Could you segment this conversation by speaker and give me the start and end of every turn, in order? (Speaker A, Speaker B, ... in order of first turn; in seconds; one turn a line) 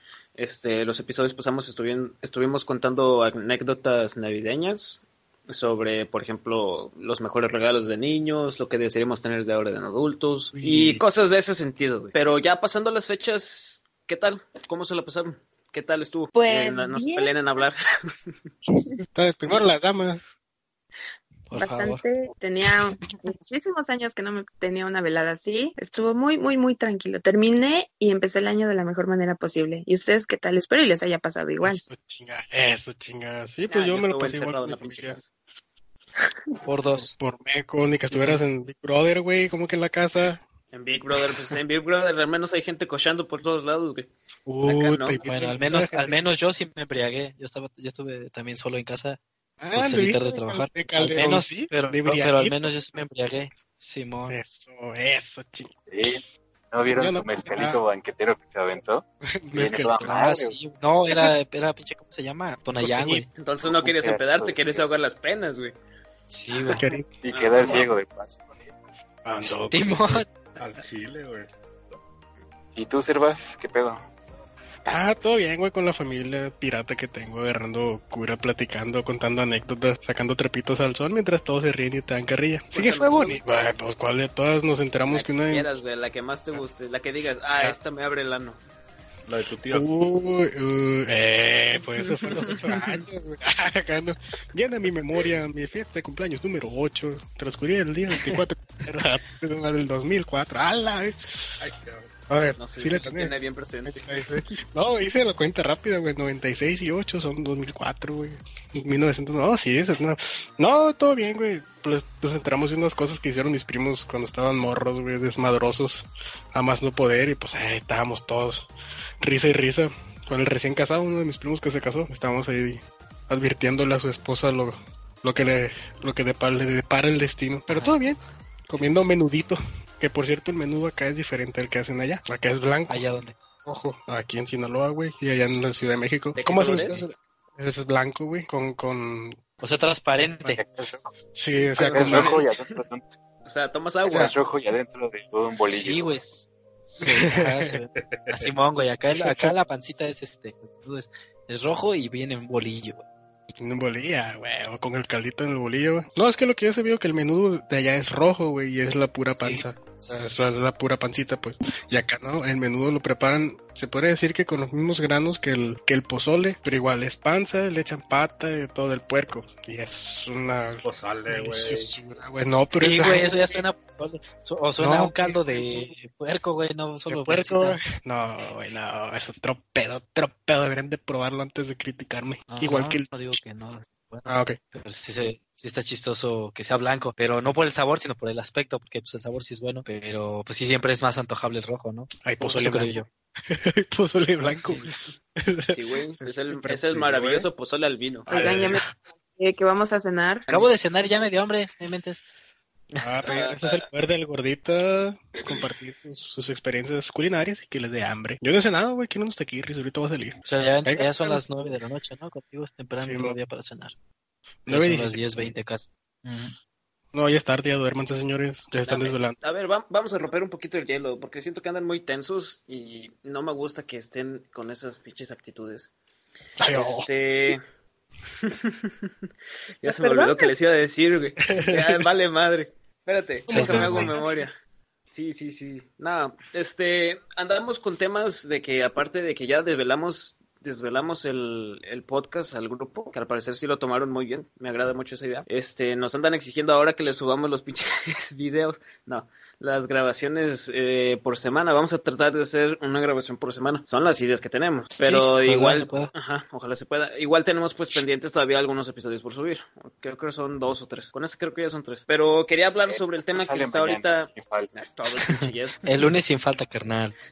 Speaker A: 0.4-18.3
Speaker B: 10.5-11.0
Speaker C: 16.3-17.3
Speaker B: 19.1-20.2
Speaker D: 21.5-22.0
Speaker C: 21.6-31.9
Speaker B: 31.6-35.2
Speaker A: 33.7-35.3
Speaker D: 36.6-37.2
Speaker B: 37.2-40.4
Speaker D: 38.1-38.4
Speaker A: 40.7-44.1
Speaker B: 44.5-46.2
Speaker A: 44.7-45.2
Speaker D: 45.2-49.2
Speaker B: 49.6-52.7
Speaker D: 49.7-54.4
Speaker B: 54.3-55.7
Speaker E: 55.9-60.6
Speaker B: 56.9-57.8
Speaker B: 59.4-60.1
Speaker D: 60.0-63.3
Speaker B: 62.8-63.3
Speaker A: 63.4-65.8
Speaker E: 63.6-64.9
Speaker D: 66.3-66.8
Speaker B: 66.7-67.1
Speaker E: 67.2-68.7
Speaker A: 67.3-67.8
Speaker B: 69.2-70.2
Speaker D: 69.4-70.3
Speaker F: 70.6-71.5
Speaker E: 72.8-74.1
Speaker B: 74.9-85.7
Speaker A: 82.7-83.4
Speaker A: 85.1-88.6
Speaker F: 89.3-89.9
Speaker B: 89.7-101.2
Speaker A: 92.1-93.0
Speaker F: 101.6-102.1
Speaker B: 102.3-103.3
Speaker A: 102.6-104.1
Speaker B: 103.9-118.7
Speaker B: 119.2-133.1
Speaker D: 127.7-128.0
Speaker D: 132.9-133.3
Speaker B: 133.7-139.4
Speaker A: 136.4-137.0
Speaker D: 139.6-140.6
Speaker B: 140.4-142.4
Speaker E: 140.6-141.1
Speaker E: 141.8-143.1
Speaker A: 141.8-142.8
Speaker A: 143.5-144.3
Speaker E: 144.1-146.2
Speaker D: 145.7-153.0
Speaker F: 148.0-148.5
Speaker B: 149.2-149.6
Speaker B: 153.6-173.6
Speaker D: 159.4-160.2
Speaker F: 170.7-171.9
Speaker D: 172.8-177.8
Speaker B: 174.8-175.9
Speaker B: 177.1-183.4
Speaker D: 182.5-193.1
Speaker B: 184.3-184.6
Speaker B: 192.2-193.0
Speaker B: 193.5-194.8
Speaker B: 195.4-197.2
Speaker A: 195.7-198.3
Speaker F: 197.1-197.5
Speaker B: 198.3-198.8
Speaker C: 198.3-200.5
Speaker D: 200.5-202.2
Speaker A: 203.0-203.8
Speaker B: 203.0-211.4
Speaker D: 210.4-213.9
Speaker B: 213.0-213.4
Speaker B: 214.7-215.2
Speaker D: 214.7-216.6
Speaker B: 217.1-219.3
Speaker A: 218.8-225.9
Speaker B: 226.6-227.1
Speaker A: 226.7-227.6
Speaker A: 228.4-229.1
Speaker A: 229.8-234.5
Speaker C: 229.8-230.5
Speaker B: 231.5-232.1
Speaker B: 233.5-234.2
Speaker D: 233.5-234.2
Speaker A: 235.1-265.9
Speaker D: 255.0-256.1
Speaker E: 262.9-264.7
Speaker D: 265.3-267.1